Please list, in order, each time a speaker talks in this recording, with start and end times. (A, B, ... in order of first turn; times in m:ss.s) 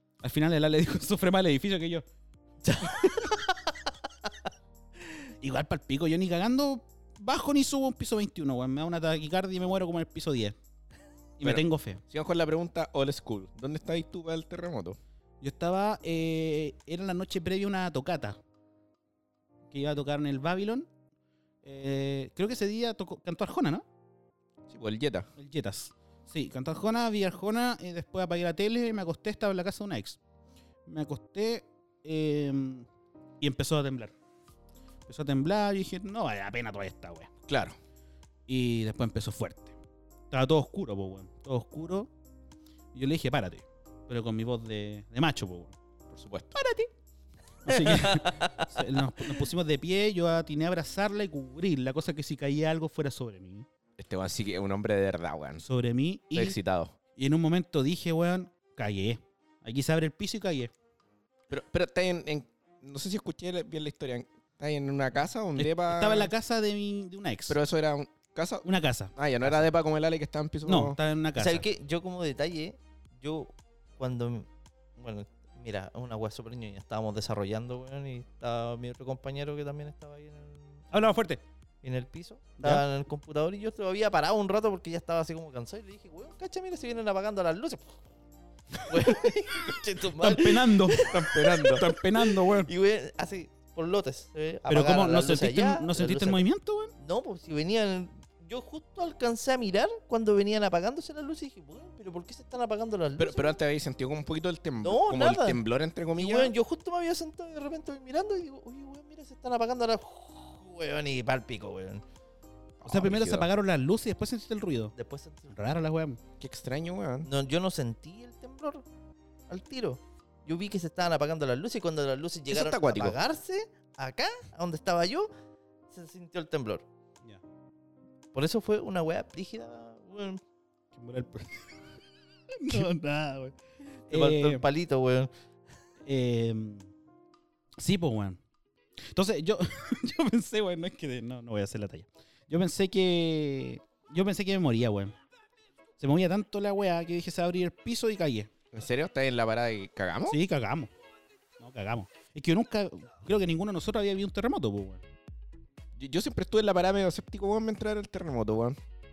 0:00.2-0:02.0 A
0:02.6-0:03.6 B
0:05.4-0:10.6 A
0:11.4-0:12.0 A
0:11.4-0:15.0 C
0:15.4-0:18.4 A
0:19.7-0:20.9 A
0:21.6-0:23.8 A
0:24.7-0:25.3 C
0:25.4-0:30.2 A
0:30.9-0:32.9 A
0:33.4-0:34.1 A
0:35.1-0:37.3 A
0:37.5-0:37.8 C
0:38.5-0:39.8 A
0:40.3-0:42.1 A
0:42.9-0:45.8 A
0:46.1-0:46.6 C
0:46.6-0:46.9 A
0:47.6-0:53.7 A
0:47.7-0:48.7 B
0:54.0-0:55.6 C
0:55.6-0:56.6 A
0:56.3-0:57.0 C
0:57.2-1:00.7 A
1:01.5-1:06.3 C
1:05.6-1:07.6 A
1:07.5-1:11.0 C
1:08.6-1:09.6 A
1:10.6-1:11.6 A
1:11.4-1:20.9 B
1:20.9-1:21.4 A
1:21.8-1:28.0 B
1:28.9-1:36.4 B
1:30.2-1:31.0 A
1:31.1-1:31.9 C
1:31.7-1:32.7 A
1:34.7-1:36.9 A
1:37.0-1:43.6 B
1:43.2-1:46.5 C
1:44.8-1:45.6 B
1:46.2-1:52.0 B
1:52.8-1:53.5 C
1:52.9-1:54.9 A
1:55.0-1:55.5 B
1:55.5-1:56.2 A
1:56.4-1:57.3 C
1:57.3-1:58.8 B
1:59.5-2:05.3 B
2:02.5-2:03.2 C
2:05.9-2:06.9 B
2:08.3-2:10.4 B
2:10.9-2:11.7 A
2:12.5-2:13.6 A
2:14.1-2:15.3 B
2:14.1-2:14.6 A
2:16.0-2:16.9 A
2:17.8-2:18.4 A
2:19.1-2:25.2 A
2:26.0-2:28.5 A
2:28.7-2:30.4 C
2:30.3-2:30.9 A
2:31.6-2:35.0 A
2:36.0-2:38.8 C